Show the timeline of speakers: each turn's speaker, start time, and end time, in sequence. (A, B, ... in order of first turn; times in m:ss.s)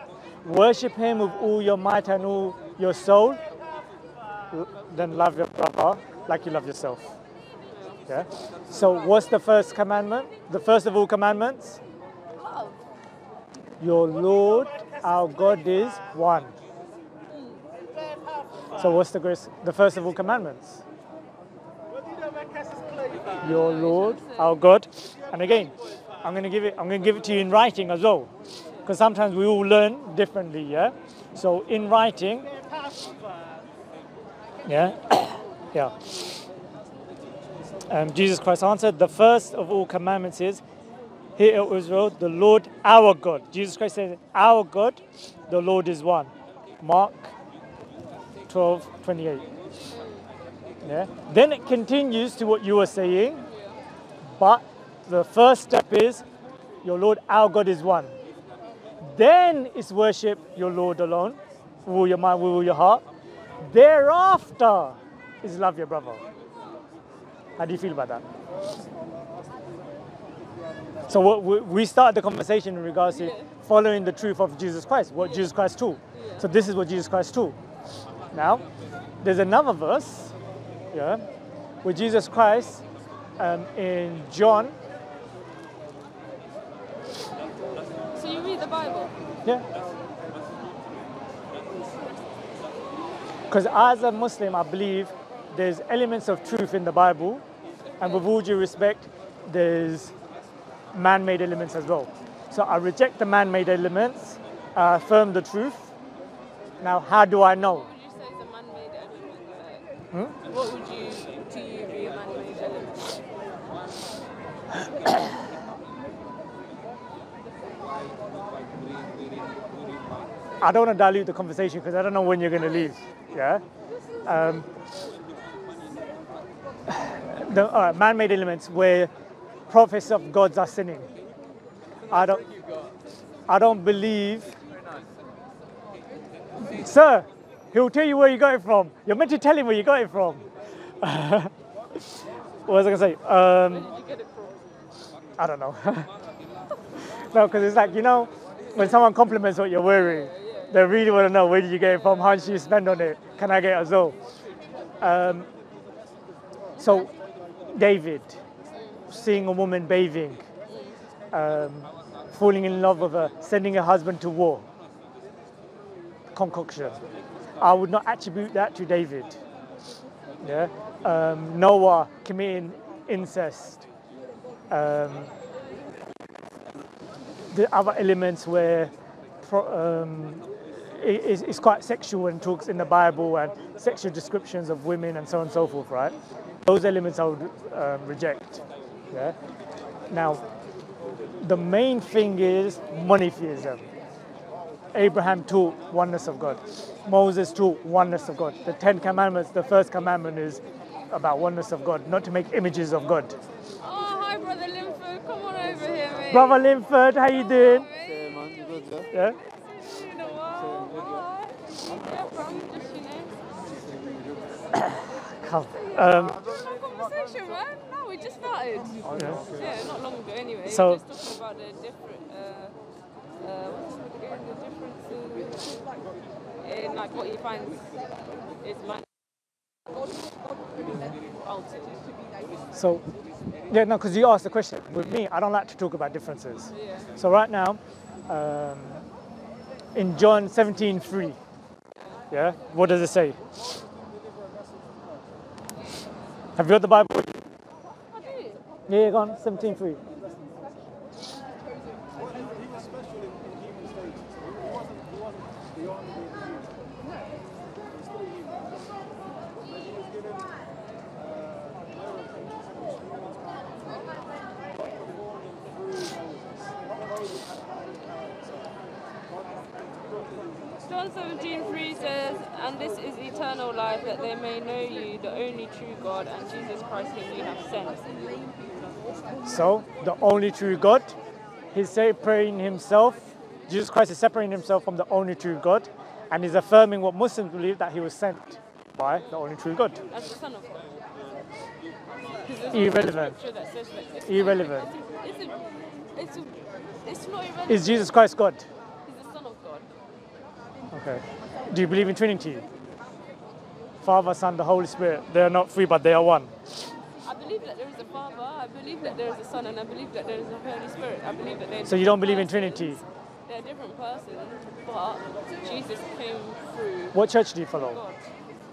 0:00.4-0:03.4 A
0:04.5-0:07.2 A
0:07.6-0:08.2 B
0:08.1-0:11.8 A
0:12.4-0:12.8 B
0:13.8-0:16.5 A
0:17.3-0:17.6 B
0:18.8-0:20.8 A
0:23.2-0:24.6 B
0:23.4-0:28.3 A
0:28.8-0:32.5 A
0:34.6-0:36.4 A
0:37.9-0:40.6 A
0:41.4-0:46.3 A
0:46.8-0:47.3 A
0:48.5-0:49.4 A
0:49.9-0:50.3 B
0:50.8-0:53.5 A
0:53.4-0:53.8 B
0:54.2-0:56.2 A
0:56.8-0:58.1 A
0:59.0-1:03.0 A
1:03.6-1:06.2 A
1:07.6-1:08.2 A
1:11.1-1:17.6 A
1:13.1-1:13.5 B
1:15.2-1:15.5 B
1:16.1-1:16.5 B
1:18.3-1:18.6 A
1:19.2-1:20.3 A
1:20.9-1:21.2 A
1:21.8-1:22.8 A
1:23.4-1:24.8 A
1:28.1-1:29.1 B
1:33.5-1:37.4 A
1:37.9-1:38.3 B
1:38.0-1:40.2 A
1:40.9-1:45.9 A
1:46.8-1:47.9 A
1:47.4-1:49.9 B
1:50.4-1:53.2 B
2:00.6-2:03.6 A
2:04.2-2:04.6 B
2:04.2-2:04.7 A
2:06.9-2:09.1 A
2:09.7-2:11.1 A
2:12.1-2:12.4 A
2:12.1-2:12.9 C
2:13.5-2:14.6 A
2:16.6-2:20.4 A
2:21.0-2:23.9 A
2:23.7-2:24.6 B
2:25.4-2:26.1 A
2:27.0-2:34.2 A
2:29.8-2:31.2 B
2:31.8-2:32.8 B
2:35.0-2:35.5 A
2:36.8-2:37.1 A
2:37.7-2:38.4 A
2:38.7-2:39.1 B
2:39.1-2:40.4 A
2:40.7-2:41.0 B
2:41.3-2:44.7 A
2:46.3-2:47.0 A
2:47.6-2:49.4 A
2:50.4-2:53.9 A
2:54.7-2:55.3 A
2:57.5-3:09.4 A
3:10.1-3:10.4 A
3:11.4-3:13.9 A
3:14.9-3:23.4 A
3:23.8-3:26.7 B
3:26.3-3:27.9 A
3:27.3-3:28.4 B
3:28.0-3:29.1 C
3:29.1-3:33.4 B
3:30.5-3:31.2 C
3:31.9-3:32.4 C
3:33.6-3:34.8 C
3:34.7-3:36.4 A
3:35.6-3:42.8 B
3:39.0-3:39.9 C
3:40.6-3:41.0 A
3:43.4-3:45.8 B
3:46.6-3:47.9 B
3:48.6-3:49.0 B
3:50.8-3:52.2 B
3:52.7-3:53.0 A
3:53.7-3:59.0 A
3:56.7-3:57.1 B
3:59.9-4:01.4 A
4:02.0-4:02.2 B
4:02.3-4:03.4 A
4:06.6-4:07.4 A
4:08.1-4:08.6 B
4:08.9-4:10.0 A
4:30.8-4:38.3 B
4:39.4-4:41.2 A
4:41.7-4:50.0 A
4:50.1-4:51.0 B
4:52.4-4:55.6 B
4:52.7-4:53.4 A
4:54.2-4:54.9 A
4:56.1-4:58.2 B
4:57.7-4:58.7 A
4:59.0-4:59.9 B
5:00.9-5:02.6 A
5:04.0-5:06.5 A
5:07.2-5:17.2 B
5:11.8-5:13.0 A
5:17.1-5:18.0 A
5:17.7-5:18.2 B